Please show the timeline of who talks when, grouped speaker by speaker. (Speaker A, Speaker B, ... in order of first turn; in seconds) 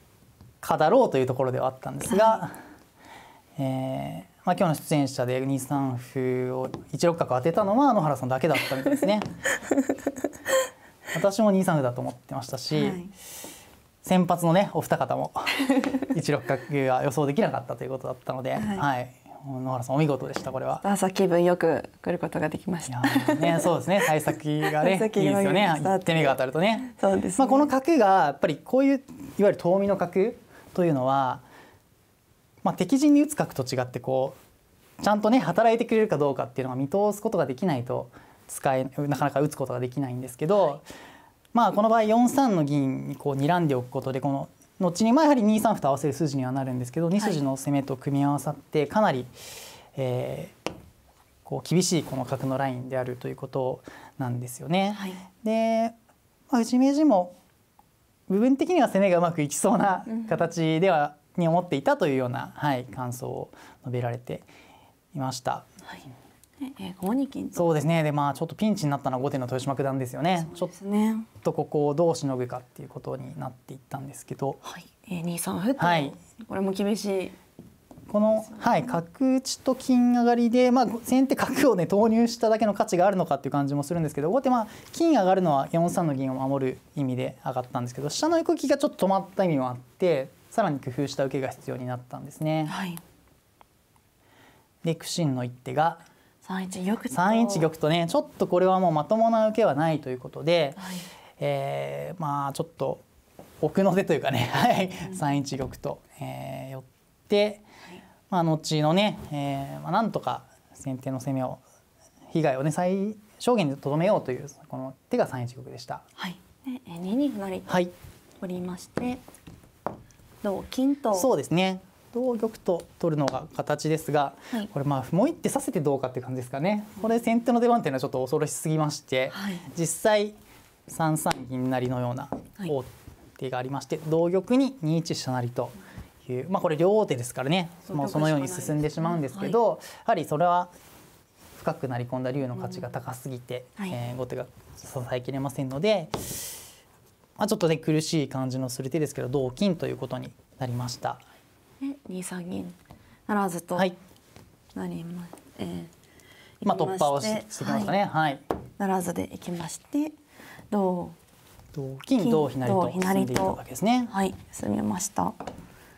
Speaker A: 0.6-2.5, 3.6-9.3, 11.1-13.0, 14.0-20.8, 22.9-31.4, 32.6-34.4, 35.0-40.9, 41.5-49.4, 49.9-50.5, 51.5-56.0, 56.5-57.4, 58.3-64.5, 65.1-65.7, 67.5-70.7, 71.4-74.6, 75.8-76.2, 78.1-92.7, 94.8-96.0, 97.1-100.8, 101.4-103.0, 103.6-107.6, 108.3-111.6, 112.3-116.0, 121.2-140.7, 141.6-146.6, 147.4-151.2, 156.6-158.4, 161.7-164.1
Speaker B: 2.1-2.4, 12.7-13.1, 18.6-18.9, 20.8-23.7, 24.6-27.7, 54.9-55.2, 66.6-67.7, 70.4-71.3, 74.6-77.4, 92.7-93.0, 96.4-97.7, 100.8-101.1, 116.2-117.9, 118.4-119.2, 120.4-121.3, 129.3-129.7, 137.9-139.6, 151.8-152.8, 153.3-153.9, 154.8-155.9, 156.6-157.9, 158.8-160.2, 160.7-161.2, 162.2-165.4